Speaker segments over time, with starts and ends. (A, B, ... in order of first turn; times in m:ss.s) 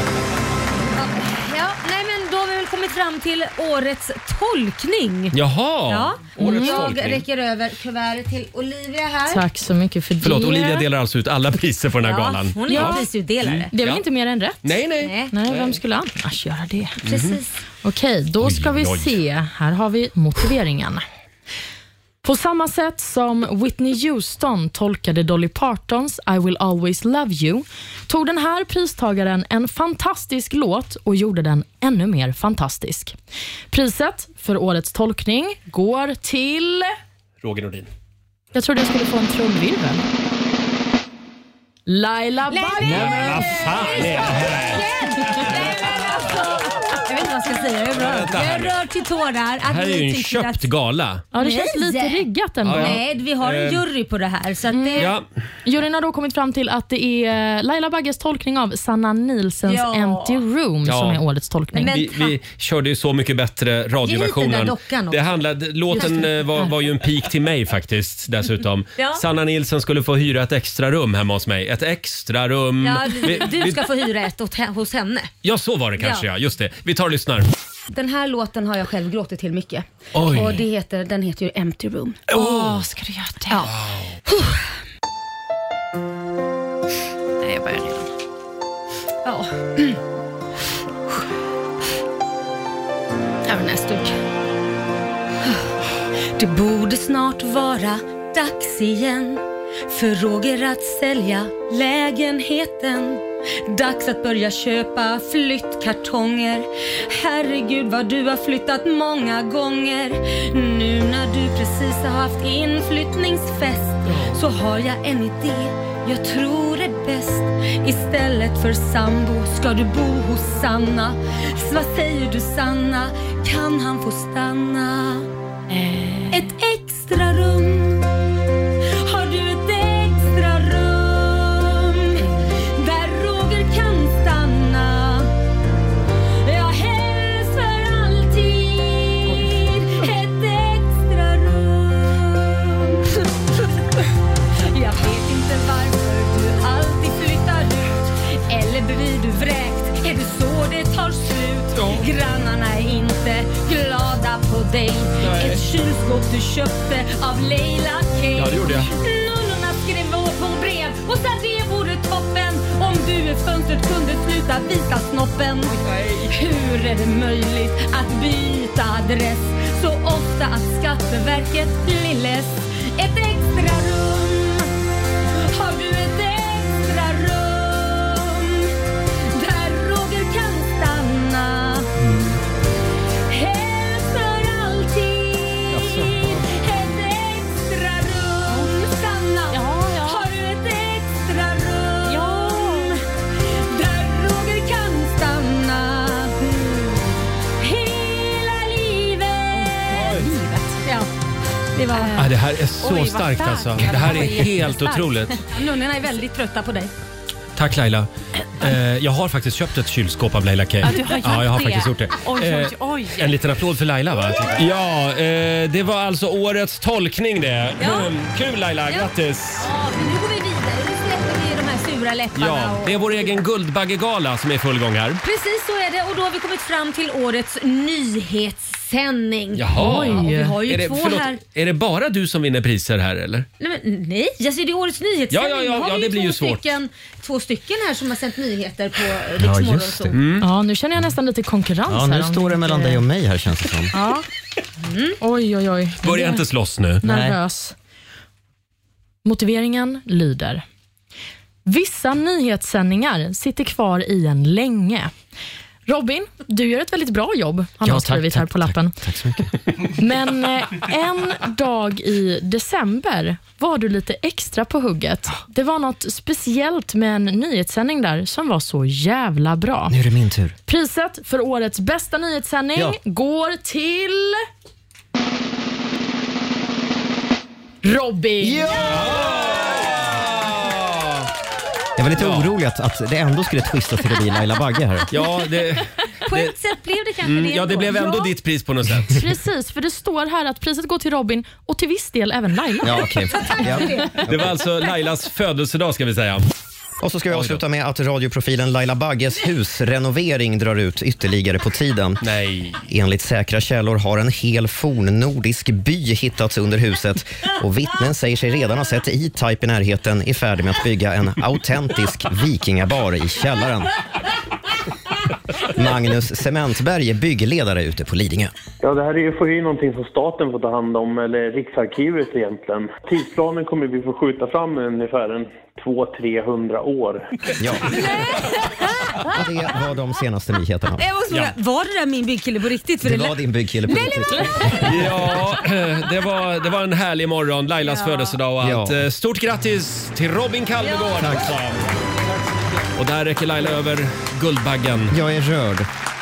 0:00.9-0:05.4 A
0:05.3-0:07.2 B
0:05.9-0:09.4 A
0:06.4-0:06.8 C
0:09.3-0:10.9 C
0:10.2-0:14.0 B
0:12.0-0:13.7 A
0:12.7-0:13.1 C
0:13.7-0:14.7 C
0:14.6-0:15.8 B
0:15.0-0:15.3 A
0:15.3-0:17.0 C
0:17.0-0:17.4 B
0:17.0-0:17.6 A
0:17.8-0:21.0 C
0:18.4-0:19.2 B
0:22.2-0:33.1 C
0:33.7-0:36.9 C
0:37.4-0:37.9 B
0:38.5-0:40.0 C
0:41.9-0:43.5 C
0:42.5-0:50.7 A
0:42.8-0:45.7 B
0:47.9-0:48.8 B
0:49.6-0:51.2 B
0:51.3-0:53.0 C
0:51.4-0:55.1 A
0:52.6-0:53.8 B
0:54.7-0:55.1 C
0:55.0-0:55.2 B
0:55.6-1:02.0 C
0:59.6-1:00.4 A
1:00.8-1:01.2 B
1:01.7-1:02.3 A
1:01.9-1:13.9 B
1:04.0-1:05.3 A
1:05.9-1:06.3 A
1:06.0-1:06.7 C
1:09.0-1:09.2 A
1:12.8-1:15.3 A
1:15.4-1:17.5 B
1:16.0-1:16.2 A
1:17.9-1:22.3 A
1:20.1-1:20.6 B
1:22.3-1:22.9 B
1:22.3-1:23.7 C
1:23.6-1:24.2 B
1:24.3-1:24.6 A
1:27.5-1:27.8 A
1:29.2-1:30.0 A
1:33.4-1:34.2 A
1:35.4-1:35.7 A
1:36.3-2:05.3 A
2:05.7-2:06.4 C
2:06.3-2:08.0 A
2:08.9-2:15.3 A
2:16.4-2:23.3 A
2:24.6-2:54.7 A
2:31.8-2:32.0 B
2:35.2-2:35.7 B
2:38.4-2:38.9 B
2:45.8-2:46.2 B
2:55.3-2:58.7 A
2:59.3-3:01.9 A
3:03.3-3:20.3 A
3:09.6-3:10.0 C
3:19.9-3:20.2 B
3:20.1-3:20.8 C
3:21.7-3:22.3 A
3:22.1-3:25.4 B
3:23.8-3:24.5 A
3:25.4-3:26.9 A
3:27.6-3:39.7 B
3:37.8-3:38.1 A
3:38.9-3:43.4 A
3:42.3-3:45.2 B
3:45.2-3:51.4 A
3:49.5-3:53.5 B
3:49.8-3:50.6 C
3:53.6-4:00.2 A
3:55.3-3:56.6 B
3:59.4-4:00.2 D
4:00.1-4:00.5 B
4:00.4-4:03.0 C
4:01.9-4:03.9 D
4:03.9-4:04.2 C
4:04.8-4:05.2 A
4:05.2-4:06.4 C
4:06.0-4:07.0 B
4:07.0-4:07.7 C
4:07.0-4:07.4 D
4:09.2-4:10.6 C
4:11.6-4:15.1 C
4:15.9-4:18.9 C
4:17.8-4:19.5 D
4:20.0-4:30.0 C
4:29.9-4:30.6 D
4:30.7-4:34.4 C
4:37.8-4:38.8 C
4:38.4-4:39.2 D
4:38.8-4:41.3 B
4:42.0-4:45.1 D
4:42.2-4:42.5 B
4:45.1-4:46.5 B
4:46.2-4:48.3 A
4:47.2-4:49.2 B
4:49.1-4:53.0 C
4:52.8-4:54.5 D
4:53.3-4:54.2 A
4:54.2-4:56.4 B
4:57.0-5:02.2 D
4:57.3-4:57.6 B
5:02.2-5:02.8 B
5:02.8-5:13.9 D
5:15.7-5:18.5 D
5:18.8-5:27.2 E
5:27.6-5:27.9 D
5:27.9-5:29.3 A
5:29.3-5:31.0 D
5:31.0-5:34.8 A
5:33.0-5:34.8 D
5:34.8-5:42.0 B
5:37.8-5:38.3 A
5:38.6-5:39.0 D
5:40.8-5:41.4 A
5:42.9-5:45.2 B
5:45.1-5:45.9 D